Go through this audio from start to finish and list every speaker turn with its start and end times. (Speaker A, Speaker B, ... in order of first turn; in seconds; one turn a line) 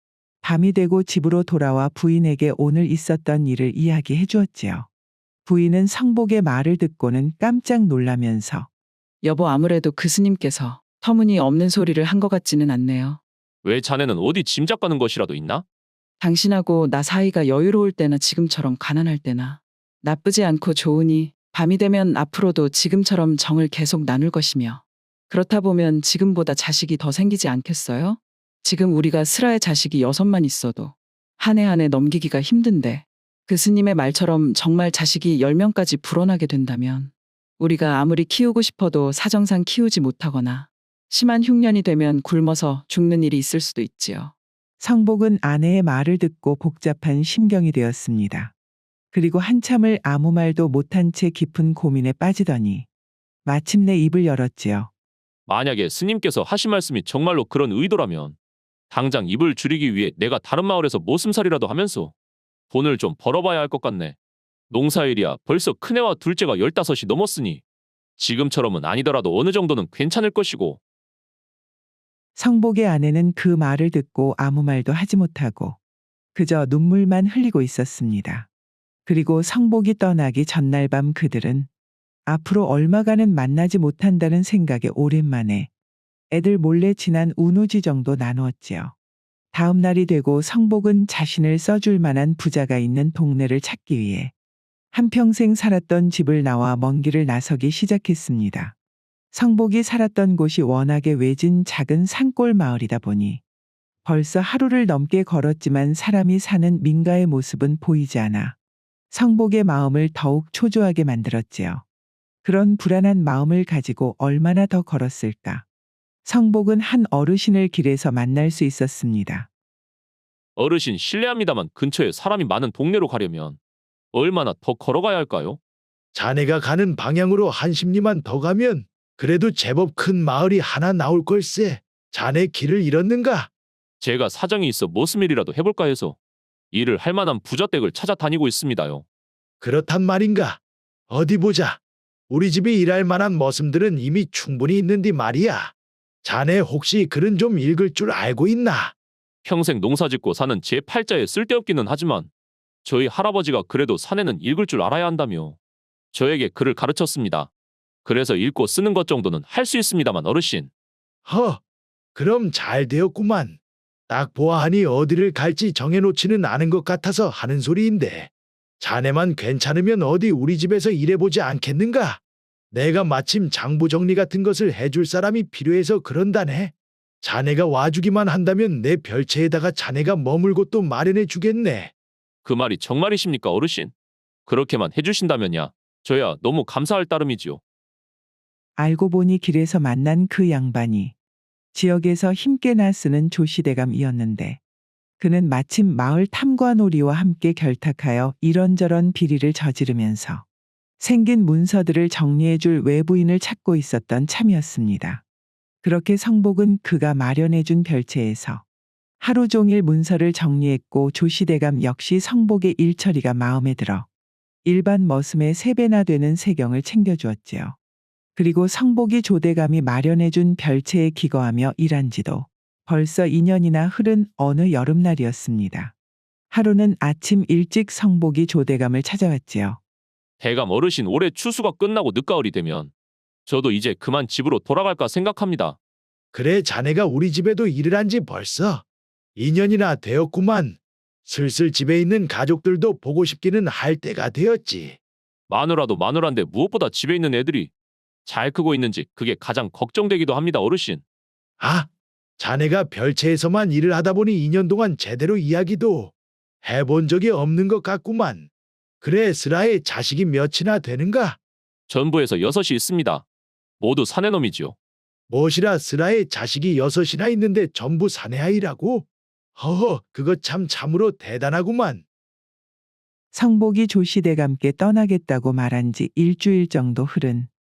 Speaker A: 0.4-4.9
Speaker A: 5.5-8.7
Speaker B: 9.2-13.2
Speaker C: 13.6-15.6
Speaker B: 16.2-44.3
Speaker A: 44.8-48.5
Speaker A: 49.1-52.9
Speaker A: 53.4-54.9
Speaker C: 55.5-58.4
Speaker C: 58.9-62.1
Speaker C: 62.7-64.2
Speaker C: 64.7-67.6
Speaker C: 68.2-70.8
Speaker A: 72.3-75.8
Speaker A: 76.3-78.5
Speaker A: 79.0-81.7
Speaker A: 82.3-85.7
Speaker A: 86.3-88.9
Speaker A: 89.5-94.3
Speaker A: 94.9-98.7
Speaker A: 99.3-103.4
Speaker A: 104.0-108.5
Speaker A: 109.1-111.8
Speaker A: 112.4-115.7
Speaker A: 116.2-119.5
Speaker C: 120.5-123.6
Speaker C: 124.1-125.6
Speaker D: 126.1-133.5
Speaker C: 134.0-136.2
Speaker C: 136.7-139.0
Speaker D: 139.6-140.6
Speaker D: 141.1-141.8
Speaker D: 142.3-145.7
Speaker D: 146.2-148.9
Speaker C: 149.4-152.3
Speaker C: 152.8-155.6
Speaker C: 156.1-157.5
Speaker C: 158.0-160.7
Speaker D: 161.2-161.6
Speaker D: 162.2-163.6
Speaker D: 164.1-172.2
Speaker D: 172.7-181.9
Speaker C: 182.4-183.9
Speaker C: 184.4-187.6
Speaker A: 188.8-191.1
Speaker A: 191.7-194.6
Speaker A: 195.2-200.4
Speaker A: 201.0-205.2
Speaker A: 205.8-208.6
Speaker A: 209.2-214.1
Speaker A: 214.6-217.8
Speaker A: 218.3-225.9
Speaker A: 226.5-229.8
Speaker C: 230.4-232.9
Speaker C: 233.5-235.8
Speaker D: 236.3-238.8
Speaker D: 239.4-245.0
Speaker C: 245.5-247.7
Speaker C: 248.2-251.0
Speaker D: 251.6-251.9
Speaker D: 252.4-256.1
Speaker D: 256.6-258.5
Speaker D: 259.0-261.4
Speaker C: 261.9-263.2
Speaker C: 263.8-264.7
Speaker D: 265.3-272.0
Speaker A: 273.3-277.5